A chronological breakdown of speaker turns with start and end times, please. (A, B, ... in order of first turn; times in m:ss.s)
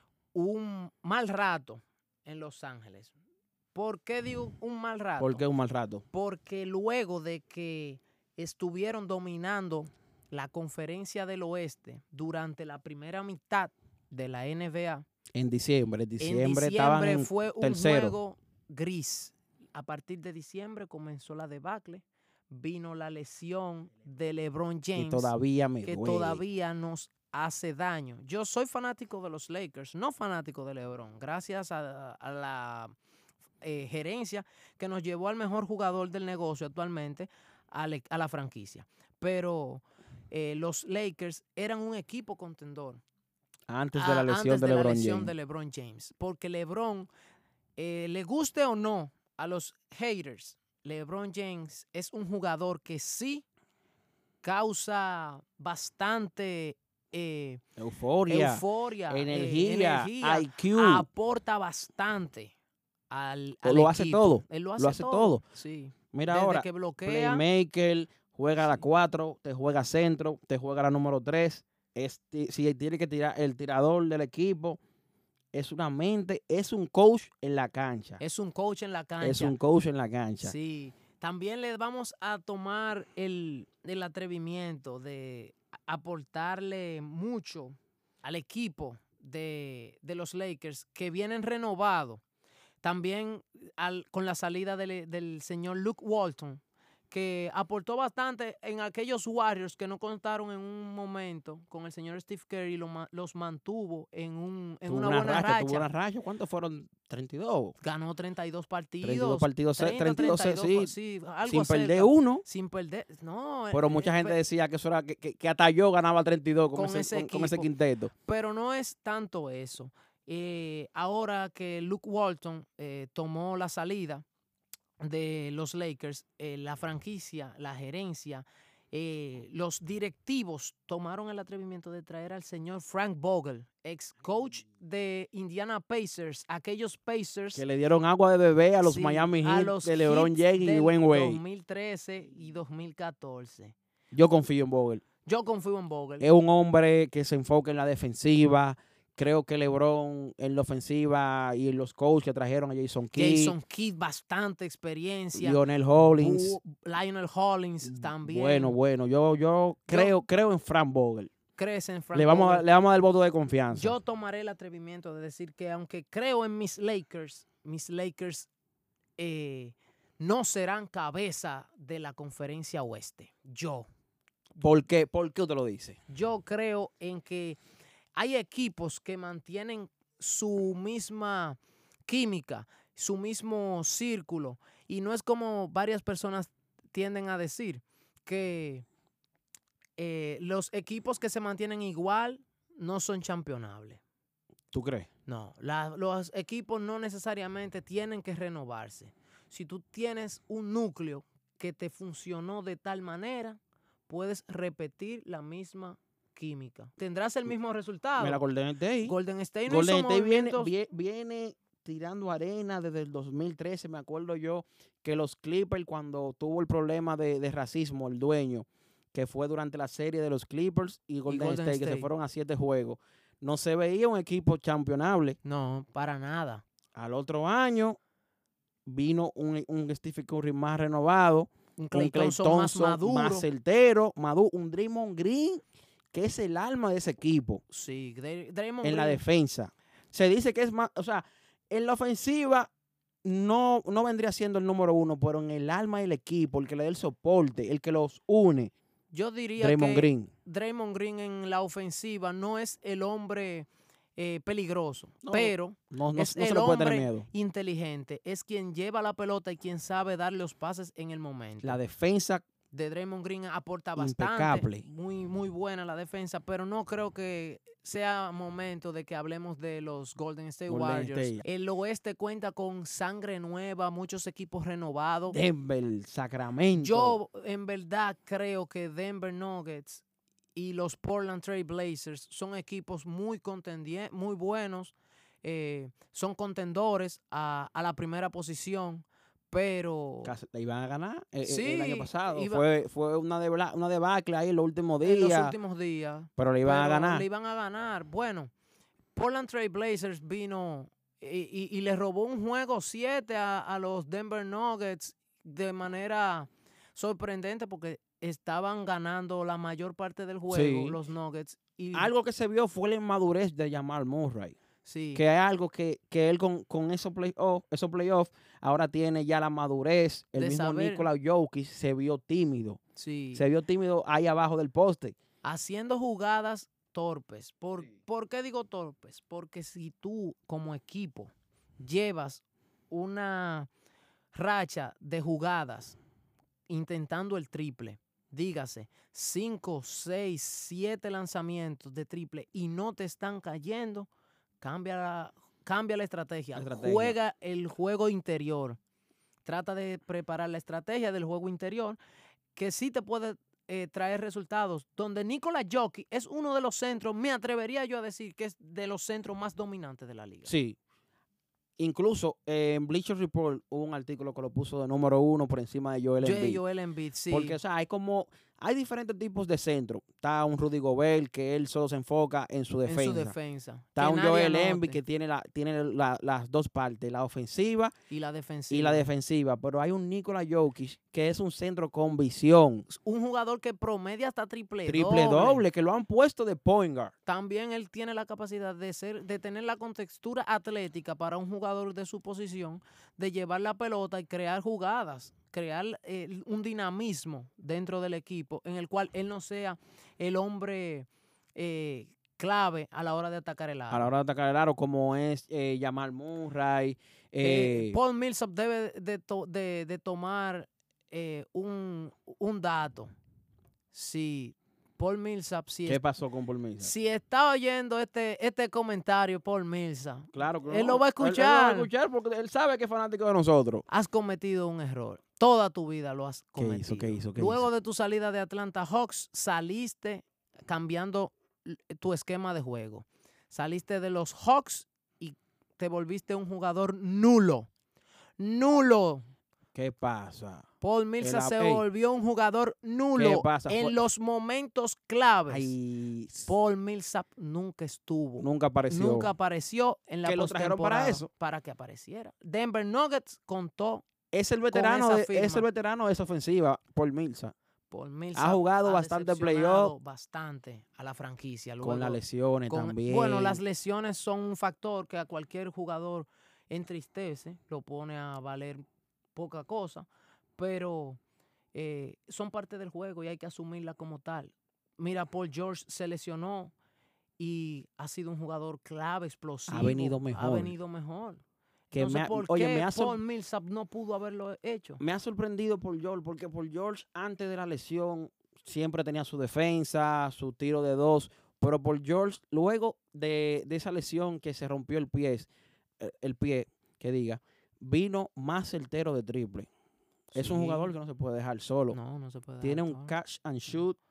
0:00.3-0:03.1 A
0:03.7-0:05.4 A
0:05.2-0:06.0 B
0:06.1-0:15.0 A
0:15.3-0:18.2 B
0:16.2-0:25.3 A
0:25.0-0:26.4 B
0:25.8-0:32.9 A
0:33.6-0:43.0 A
0:43.7-0:45.3 B
0:43.9-0:47.1 A
0:47.8-0:53.4 A
0:54.4-0:57.6 A
0:57.8-1:01.1 B
0:58.3-1:02.5 A
1:03.1-1:07.4 A
1:03.6-1:05.4 B
1:06.1-1:14.8 B
1:15.5-1:18.2 B
1:18.2-1:19.6 A
1:19.2-1:20.5 B
1:20.4-1:32.2 A
1:32.8-1:45.9 A
1:44.9-1:47.8 B
1:47.8-1:54.4 A
1:49.0-1:50.9 B
1:51.4-1:52.4 B
1:53.7-1:58.1 B
1:56.7-1:57.7 A
1:58.2-2:04.2 A
2:05.0-2:17.6 A
2:17.5-2:21.4 B
2:18.8-2:23.7 A
2:24.1-2:25.0 B
2:25.2-2:26.2 A
2:26.2-2:33.6 B
2:33.1-2:38.8 A
2:35.3-2:36.6 B
2:37.8-2:41.3 B
2:39.9-2:40.1 A
2:41.6-2:42.6 A
2:42.1-2:44.0 B
2:43.7-2:48.5 A
2:49.2-2:53.9 A
2:54.6-2:56.0 B
2:56.1-2:57.6 A
2:58.2-3:08.8 A
3:10.0-3:14.0 A
3:14.7-3:15.1 B
3:15.3-3:28.4 A
3:28.2-3:29.1 B
3:29.0-3:30.7 A
3:29.7-3:45.4 B
3:41.3-3:42.1 A
3:45.4-3:46.6 A
3:46.9-3:48.0 B
3:48.8-3:57.6 B
3:51.8-3:53.5 A
3:57.7-3:59.2 A
3:58.8-4:02.7 B
4:03.2-4:08.7 B
4:09.1-4:21.8 A
4:09.6-4:10.3 B
4:15.2-4:17.3 B
4:21.6-4:22.4 B
4:22.7-4:35.4 A
4:24.0-4:24.8 B
4:30.7-4:31.4 B
4:35.3-4:37.2 B
4:36.8-4:40.0 A
4:40.5-4:50.3 A
4:50.2-4:55.6 B
4:51.4-4:52.6 A
4:55.0-4:58.5 A
4:56.4-4:57.2 B
4:59.1-5:12.1 A
5:10.5-5:11.0 B
5:11.9-5:14.6 B
5:14.8-5:15.2 A
5:15.1-5:22.8 B
5:20.4-5:21.1 A
5:23.0-5:23.4 A
5:23.3-5:25.2 B
5:25.4-5:33.7 A
5:34.3-5:36.0 A
5:36.7-5:44.1 A
5:44.6-5:48.8 A
5:46.5-5:47.2 B
5:49.4-5:52.0 A
5:52.5-6:00.5 A
6:00.4-6:00.8 B
6:01.8-6:06.6 B
6:06.2-6:07.6 A
6:07.3-6:13.3 B
6:12.8-6:15.0 A
6:14.0-6:17.9 B
6:18.1-6:19.1 A
6:18.7-6:22.8 B
6:22.9-6:25.6 A
6:24.9-6:27.1 B
6:27.2-6:44.1 A
6:43.9-6:48.0 B
6:47.4-6:53.1 A
6:53.9-6:56.0 A
6:55.8-6:56.9 B
6:56.8-7:01.9 A
7:00.3-7:03.8 B
7:03.9-7:17.7 A
7:06.6-7:07.7 B
7:18.4-7:19.2 A
7:19.7-7:20.7 B
7:20.8-7:25.7 A
7:21.2-7:21.8 B
7:23.2-7:24.0 B
7:25.5-7:26.5 B
7:26.4-7:34.0 A
7:28.4-7:29.3 B
7:30.2-7:31.3 B
7:34.3-7:37.5 B
7:34.7-7:35.6 A
7:37.9-7:48.8 A
7:38.3-7:39.9 B
7:41.8-7:43.6 B
7:49.3-7:51.2 A
7:51.7-7:56.7 A
7:57.4-8:05.0 A
7:59.7-8:00.7 B
8:01.9-8:03.2 B
8:05.0-8:15.5 B
8:16.0-8:19.7 B
8:20.3-8:22.0 B
8:20.3-8:20.9 A
8:21.9-8:23.1 A
8:22.6-8:24.0 B